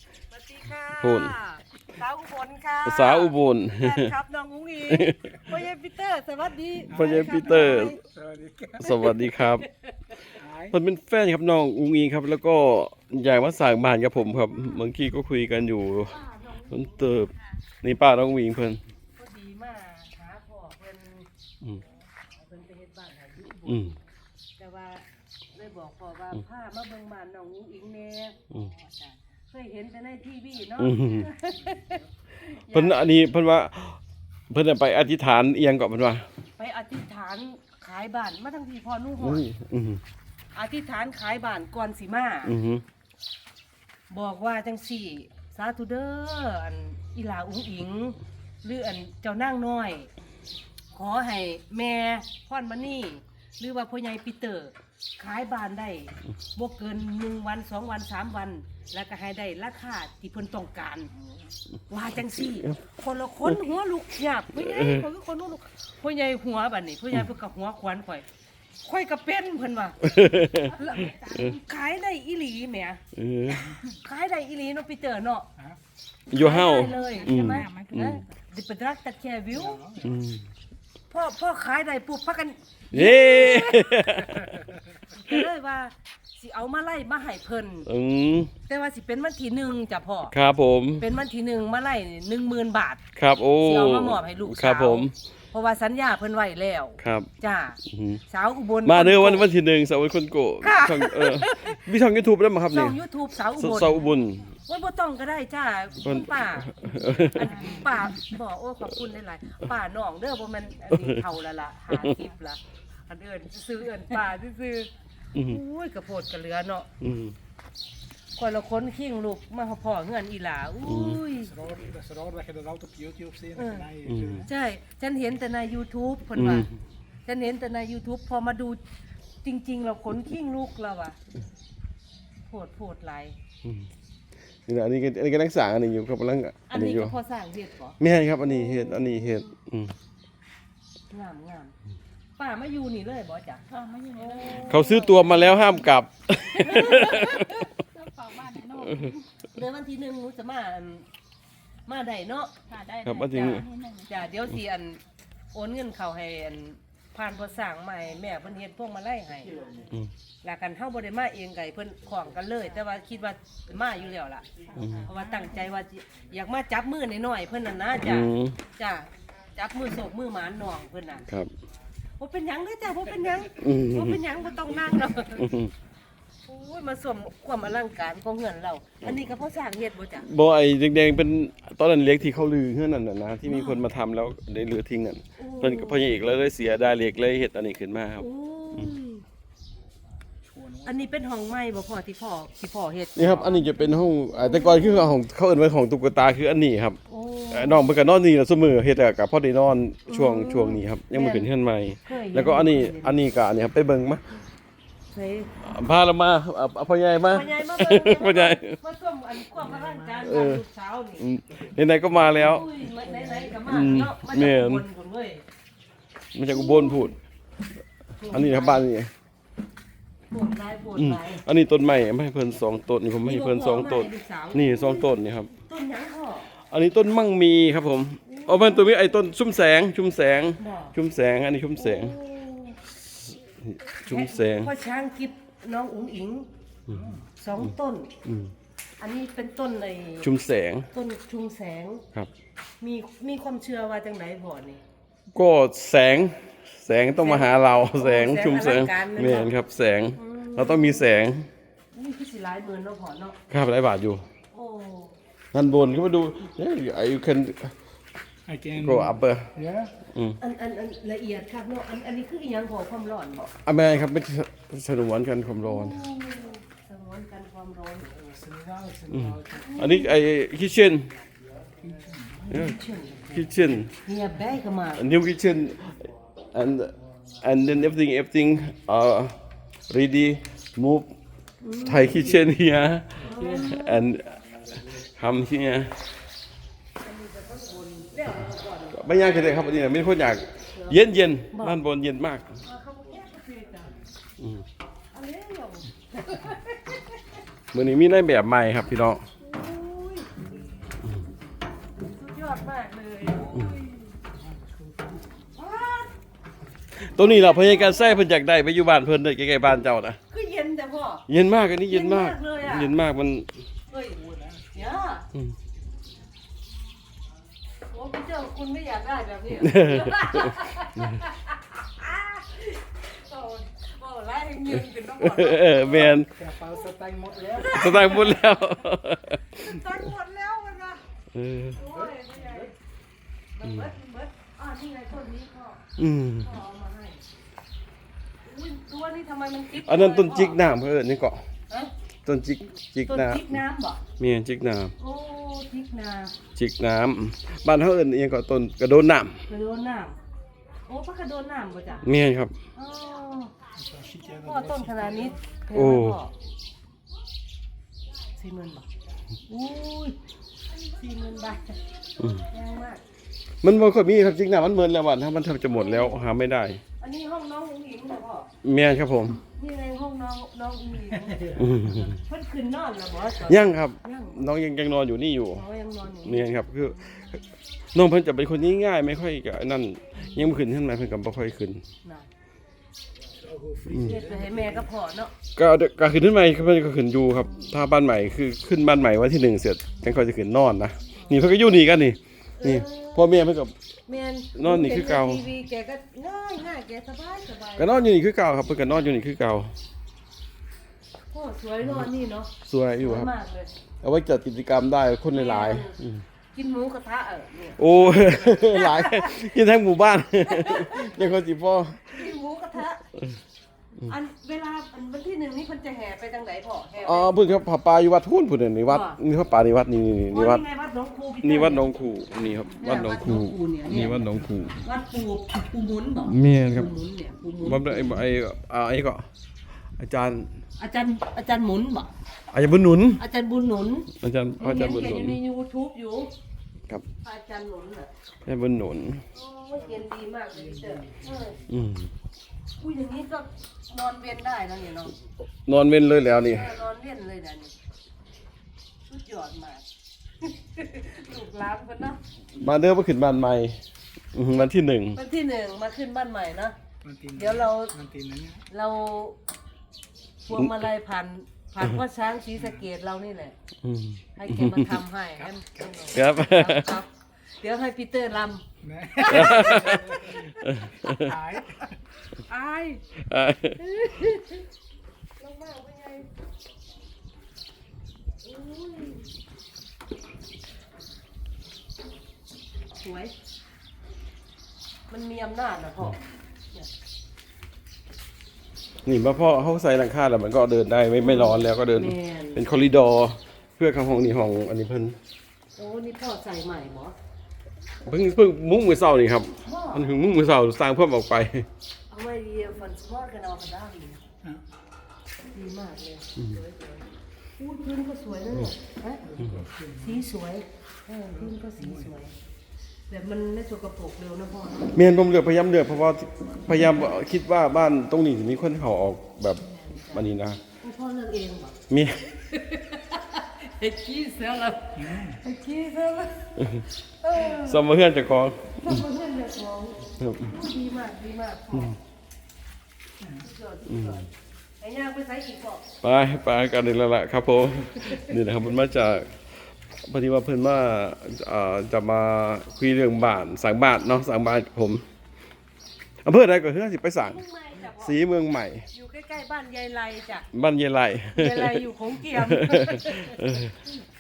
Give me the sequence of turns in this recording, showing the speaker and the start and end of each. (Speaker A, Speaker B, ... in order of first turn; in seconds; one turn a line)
Speaker A: 0.3-8.0
Speaker B: 1.0-1.4
Speaker B: 2.9-4.1
Speaker B: 4.9-5.2
Speaker B: 6.9-8.0
Speaker C: 6.9-9.0
Speaker B: 8.8-9.7
Speaker C: 10.4-10.8
Speaker B: 10.7-18.8
Speaker A: 19.2-21.3
Speaker A: 22.3-24.0
Speaker B: 23.7-23.9
Speaker A: 24.6-33.2
Speaker B: 30.8-31.3
Speaker B: 32.5-34.0
Speaker B: 34.5-36.2
Speaker A: 36.6-39.5
Speaker B: 39.2-40.0
Speaker A: 40.5-42.5
Speaker B: 42.5-42.8
Speaker A: 44.1-50.1
Speaker A: 50.9-61.1
Speaker A: 61.9-68.3
Speaker B: 64.5-65.1
Speaker A: 68.8-70.0
Speaker B: 70.0-71.5
Speaker A: 70.6-73.0
Speaker B: 73.1-73.8
Speaker A: 73.6-75.5
Speaker B: 76.3-78.2
Speaker A: 76.3-79.8
Speaker D: 77.0-78.1
Speaker C: 79.5-80.2
Speaker B: 80.0-80.5
Speaker A: 81.1-84.4
Speaker B: 82.9-84.6
Speaker A: 85.1-87.9
Speaker B: 87.9-88.5
Speaker A: 88.7-90.4
Speaker B: 90.3-91.1
Speaker A: 91.0-93.0
Speaker B: 93.2-95.1
Speaker A: 93.6-99.5
Speaker B: 97.0-97.3
Speaker B: 97.9-98.2
Speaker B: 98.8-103.0
Speaker A: 100.6-101.9
Speaker A: 102.7-104.1
Speaker B: 103.6-104.5
Speaker A: 104.7-116.9
Speaker B: 106.0-107.8
Speaker B: 110.9-111.2
Speaker B: 111.9-112.2
Speaker B: 115.3-115.6
Speaker B: 117.0-117.3
Speaker A: 118.4-121.5
Speaker B: 120.8-121.2
Speaker C: 121.3-124.5
Speaker A: 123.6-123.9
Speaker B: 124.1-124.5
Speaker A: 124.4-126.7
Speaker B: 126.3-126.7
Speaker A: 127.3-128.8
Speaker A: 129.4-131.2
Speaker A: 132.5-133.4
Speaker B: 133.6-133.9
Speaker B: 134.7-137.2
Speaker A: 136.7-139.5
Speaker B: 138.0-139.9
Speaker A: 141.1-141.8
Speaker A: 142.4-145.2
Speaker D: 143.7-145.1
Speaker B: 144.7-147.6
Speaker A: 146.5-147.7
Speaker D: 147.8-149.3
Speaker A: 149.5-151.1
Speaker A: 151.9-152.5
Speaker D: 152.7-154.2
Speaker B: 153.0-153.7
Speaker A: 153.4-155.0
Speaker A: 155.5-159.7
Speaker C: 159.6-159.9
Speaker A: 160.4-171.3
Speaker C: 164.7-165.4
Speaker B: 164.8-165.1
Speaker B: 168.0-168.6
Speaker A: 172.2-175.5
Speaker B: 173.6-174.2
Speaker B: 175.3-175.7
Speaker A: 176.5-180.3
Speaker B: 180.2-188.9
Speaker A: 183.5-183.8
Speaker A: 185.4-186.1
Speaker A: 188.2-189.2
Speaker C: 190.5-191.0
Speaker A: 190.8-195.1
Speaker B: 193.2-197.0
Speaker A: 197.1-197.8
Speaker B: 197.5-204.3
Speaker A: 200.1-201.5
Speaker A: 202.1-203.2
Speaker A: 205.1-205.5
Speaker B: 205.6-208.8
Speaker A: 207.3-211.2
Speaker B: 210.2-210.6
Speaker B: 211.2-212.7
Speaker A: 212.2-215.4
Speaker C: 213.1-213.4
Speaker B: 213.6-214.8
Speaker B: 216.3-217.2
Speaker A: 216.5-217.1
Speaker A: 218.2-218.8
Speaker B: 218.3-219.1
Speaker A: 220.3-221.4
Speaker B: 221.0-225.5
Speaker A: 223.2-226.5
Speaker B: 226.6-232.2
Speaker A: 228.3-228.9
Speaker A: 230.6-231.0
Speaker A: 231.8-232.8
Speaker B: 233.3-234.7
Speaker A: 234.1-236.5
Speaker C: 236.9-237.2
Speaker A: 237.4-238.1
Speaker B: 238.2-238.5
Speaker A: 239.0-240.3
Speaker B: 240.2-240.9
Speaker A: 240.9-242.1
Speaker A: 242.8-244.8
Speaker B: 245.3-251.5
Speaker A: 247.2-249.5
Speaker A: 250.2-251.1
Speaker A: 251.9-253.4
Speaker B: 253.5-254.2
Speaker A: 254.5-255.2
Speaker B: 255.5-257.8
Speaker C: 258.5-259.9
Speaker B: 258.8-259.5
Speaker B: 260.1-260.4
Speaker A: 260.4-263.5
Speaker B: 263.5-266.0
Speaker A: 265.6-268.1
Speaker C: 268.1-269.8
Speaker B: 269.1-271.1
Speaker A: 269.5-270.2
Speaker C: 271.8-272.5
Speaker A: 272.5-273.4
Speaker B: 272.5-273.9
Speaker A: 274.0-275.0
Speaker B: 274.9-279.4
Speaker B: 279.9-281.1
Speaker A: 281.6-282.4
Speaker B: 281.8-286.0
Speaker A: 283.2-284.1
Speaker C: 283.3-283.8
Speaker A: 287.0-289.4
Speaker B: 288.9-292.6
Speaker A: 290.7-291.8
Speaker A: 292.6-294.0
Speaker B: 294.4-294.6
Speaker A: 295.1-297.4
Speaker B: 297.7-299.2
Speaker A: 299.4-300.4
Speaker A: 302.0-304.1
Speaker C: 303.4-305.3
Speaker A: 305.6-306.1
Speaker B: 307.0-310.2
Speaker A: 307.2-308.2
Speaker A: 310.3-311.3
Speaker B: 311.3-313.5
Speaker A: 311.9-312.9
Speaker A: 313.9-314.2
Speaker C: 314.0-314.8
Speaker A: 314.7-315.3
Speaker A: 317.9-326.2
Speaker B: 319.6-320.6
Speaker B: 325.2-326.3
Speaker C: 325.9-328.1
Speaker A: 327.5-328.6
Speaker B: 327.6-329.4
Speaker A: 329.5-331.0
Speaker B: 331.3-331.9
Speaker A: 331.7-332.7
Speaker C: 332.2-332.6
Speaker A: 333.6-335.9
Speaker B: 336.0-336.5
Speaker A: 336.4-337.2
Speaker A: 338.4-340.6
Speaker B: 339.8-341.4
Speaker B: 342.2-343.5
Speaker A: 343.1-344.0
Speaker B: 344.2-344.9
Speaker A: 345.0-346.3
Speaker B: 346.6-349.4
Speaker A: 349.5-350.2
Speaker A: 350.9-352.1
Speaker B: 352.0-352.5
Speaker A: 352.8-353.5
Speaker C: 353.7-355.4
Speaker A: 354.4-356.3
Speaker B: 355.7-356.2
Speaker A: 358.4-358.9
Speaker A: 359.5-360.2
Speaker A: 360.8-363.0
Speaker B: 362.2-362.5
Speaker B: 363.6-366.8
Speaker A: 365.7-366.3
Speaker A: 367.0-368.5
Speaker B: 368.6-369.4
Speaker A: 369.5-374.4
Speaker B: 371.6-372.2
Speaker B: 373.4-375.6
Speaker A: 375.5-377.3
Speaker B: 376.2-377.4
Speaker B: 377.9-381.8
Speaker C: 383.4-384.9
Speaker B: 383.9-384.2
Speaker A: 384.0-385.3
Speaker B: 385.6-393.8
Speaker A: 392.6-393.3
Speaker A: 394.1-398.1
Speaker B: 394.6-395.4
Speaker B: 397.8-399.8
Speaker A: 401.3-403.7
Speaker B: 401.8-402.1
Speaker B: 402.6-403.3
Speaker B: 404.0-406.2
Speaker A: 405.3-406.0
Speaker A: 406.5-409.5
Speaker B: 407.8-412.3
Speaker A: 410.4-411.4
Speaker A: 412.1-413.1
Speaker A: 414.1-417.3
Speaker B: 417.0-420.6
Speaker A: 418.9-419.2
Speaker A: 420.3-421.8
Speaker B: 421.4-424.8
Speaker A: 422.8-428.2
Speaker B: 426.2-426.9
Speaker B: 427.6-429.3
Speaker B: 430.0-430.5
Speaker A: 430.8-432.1
Speaker B: 432.5-433.2
Speaker A: 433.2-436.3
Speaker B: 434.1-435.4
Speaker A: 437.2-438.1
Speaker B: 438.5-439.2
Speaker A: 439.3-441.6
Speaker C: 439.8-441.2
Speaker B: 441.7-442.1
Speaker A: 442.8-445.1
Speaker B: 445.7-446.8
Speaker A: 446.4-447.7
Speaker A: 449.1-449.9
Speaker A: 450.4-452.2
Speaker B: 452.6-453.8
Speaker B: 454.3-455.2
Speaker A: 455.1-456.8
Speaker C: 457.0-458.6
Speaker A: 457.4-457.9
Speaker A: 458.7-459.4
Speaker A: 460.5-463.6
Speaker C: 462.6-462.8
Speaker B: 463.8-465.0
Speaker A: 464.4-470.8
Speaker B: 466.1-467.0
Speaker C: 468.8-472.0
Speaker B: 469.3-471.4
Speaker A: 471.8-473.1
Speaker B: 473.2-473.9
Speaker A: 473.8-474.6
Speaker A: 475.4-476.3
Speaker A: 478.4-479.3
Speaker A: 483.0-483.3
Speaker A: 485.1-486.9
Speaker B: 489.1-495.2
Speaker A: 491.2-492.6
Speaker A: 495.8-497.1
Speaker B: 498.1-501.7
Speaker A: 499.6-500.1
Speaker A: 502.1-504.2
Speaker A: 505.5-507.1
Speaker A: 507.6-509.2
Speaker C: 509.2-510.2
Speaker A: 510.0-512.4
Speaker C: 511.3-512.1
Speaker A: 513.1-514.9
Speaker B: 514.9-520.6
Speaker A: 519.6-520.3
Speaker A: 520.8-521.8
Speaker B: 521.9-522.4
Speaker A: 522.5-527.9
Speaker C: 525.0-525.4
Speaker B: 526.6-526.9
Speaker B: 527.4-529.0
Speaker A: 528.8-532.0
Speaker B: 530.2-530.5
Speaker A: 533.3-534.3
Speaker B: 533.9-534.2
Speaker A: 534.8-535.9
Speaker B: 536.0-539.4
Speaker B: 540.0-545.0
Speaker B: 546.2-548.9
Speaker A: 547.3-548.2
Speaker A: 548.9-550.5
Speaker B: 550.5-553.8
Speaker A: 551.3-553.7